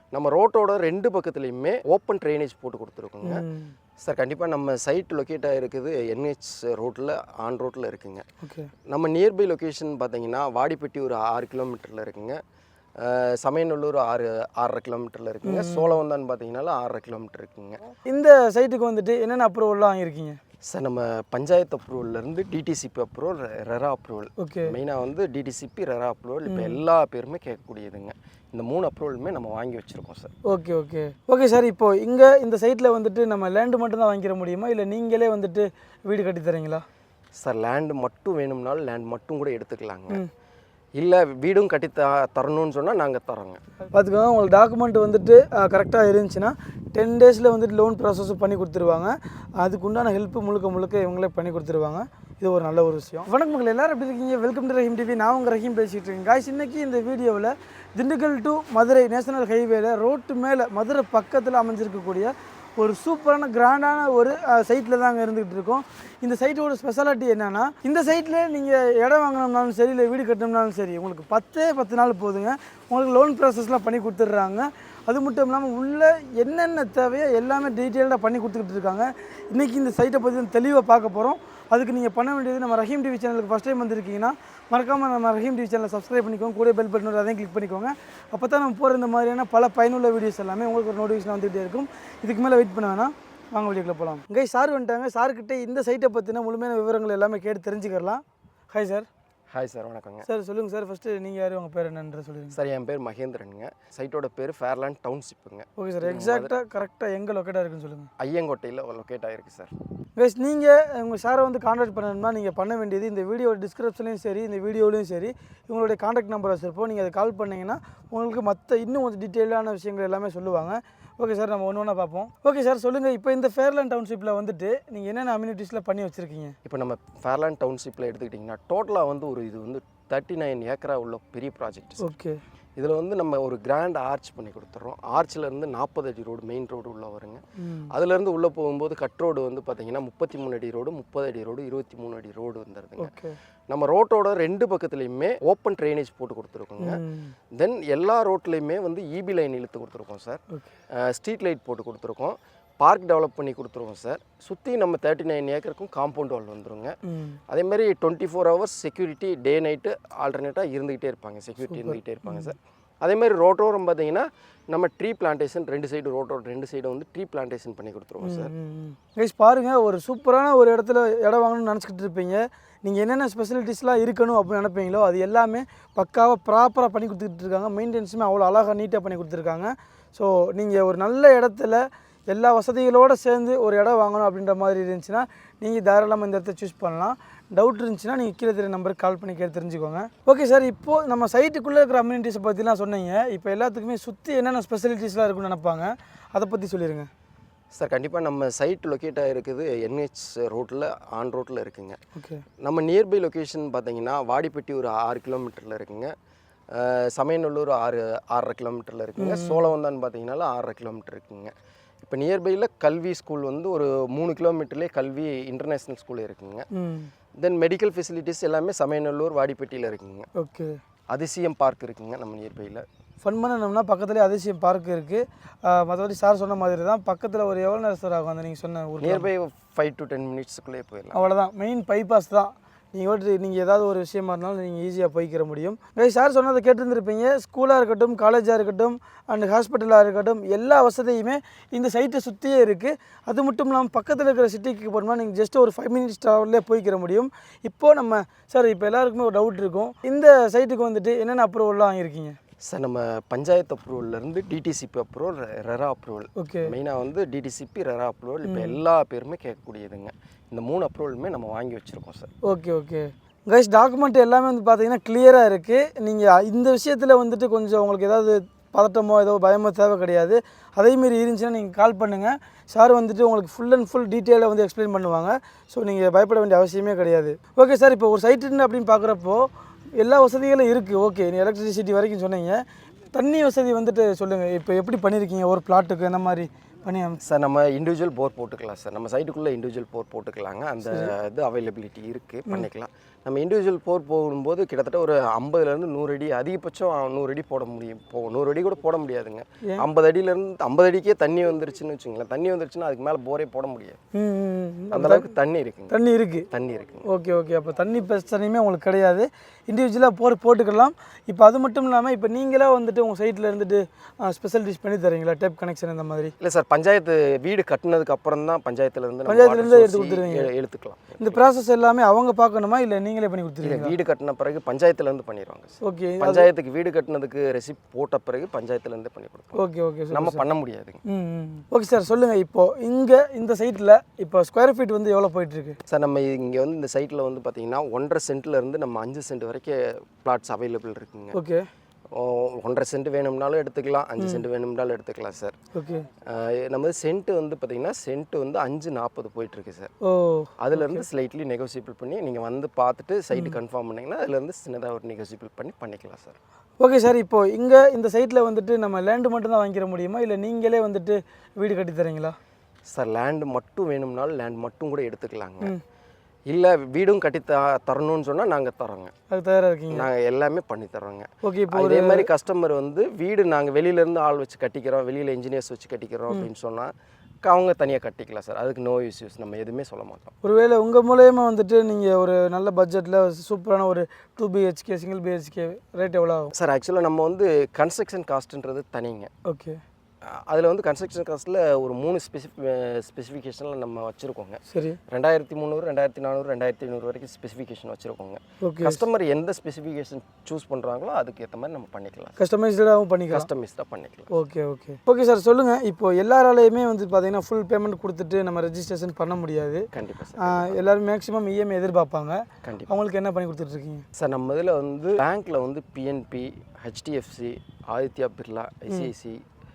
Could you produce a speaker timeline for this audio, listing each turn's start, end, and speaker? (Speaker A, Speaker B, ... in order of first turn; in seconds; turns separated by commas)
Speaker A: 0.1-3.4, Speaker B: 3.2-3.7, Speaker A: 4.0-8.3, Speaker B: 8.4-8.7, Speaker A: 8.9-12.4, Speaker A: 13.0-17.8, Speaker B: 15.4-15.9, Speaker B: 18.1-20.4, Speaker A: 20.6-30.3, Speaker B: 24.4-24.7, Speaker B: 26.5-26.8, Speaker B: 30.4-36.8, Speaker A: 37.4-40.2, Speaker A: 41.0-43.6, Speaker B: 43.9-99.1, Speaker A: 99.5-100.3, Speaker B: 100.2-102.6, Speaker A: 102.5-106.5, Speaker B: 105.8-108.1, Speaker A: 108.2-109.7, Speaker B: 110.2-126.5, Speaker A: 126.6-132.1, Speaker B: 132.0-132.4, Speaker A: 132.8-143.2, Speaker B: 137.6-137.9, Speaker B: 143.0-143.3, Speaker A: 143.7-147.0, Speaker B: 146.8-147.3, Speaker A: 147.5-150.4, Speaker A: 150.9-156.9, Speaker B: 157.1-157.4, Speaker A: 157.5-168.5, Speaker B: 161.7-162.5, Speaker B: 168.2-197.1, Speaker A: 197.8-202.0, Speaker B: 202.1-202.4, Speaker A: 202.6-206.1, Speaker A: 206.7-216.7, Speaker B: 209.2-209.7, Speaker B: 216.7-217.1, Speaker A: 217.4-220.3, Speaker B: 220.3-220.8, Speaker A: 221.1-222.8, Speaker B: 223.2-229.3, Speaker A: 229.0-231.2, Speaker B: 231.1-252.4, Speaker A: 252.7-262.3, Speaker B: 256.4-256.7, Speaker B: 258.4-258.8, Speaker B: 262.4-287.2, Speaker A: 287.2-304.0, Speaker B: 290.8-291.1, Speaker B: 304.1-305.3, Speaker A: 304.9-305.9, Speaker B: 305.9-306.5, Speaker A: 306.5-307.0, Speaker B: 307.0-316.3, Speaker A: 316.4-321.4, Speaker B: 319.2-320.5, Speaker B: 321.2-323.9, Speaker A: 323.6-329.6, Speaker B: 325.8-326.5, Speaker B: 329.5-330.4, Speaker A: 330.1-331.0, Speaker B: 331.1-335.8, Speaker A: 335.9-341.4, Speaker B: 341.3-341.6, Speaker A: 342.1-345.6, Speaker B: 345.7-346.1, Speaker A: 346.2-349.9, Speaker B: 350.0-351.1, Speaker A: 350.6-356.4, Speaker B: 356.8-362.4, Speaker A: 362.9-365.7, Speaker A: 366.5-369.1, Speaker B: 369.3-370.1, Speaker A: 369.9-376.9, Speaker B: 371.4-372.3, Speaker A: 377.4-380.3, Speaker B: 380.4-386.5, Speaker A: 386.5-389.3, Speaker B: 389.4-389.8, Speaker A: 390.2-402.4, Speaker B: 394.7-395.0, Speaker B: 398.6-399.0, Speaker B: 402.4-403.5, Speaker A: 403.3-404.3, Speaker B: 404.3-409.9, Speaker A: 409.9-410.9, Speaker B: 410.4-414.0, Speaker A: 412.6-412.9, Speaker A: 414.1-419.4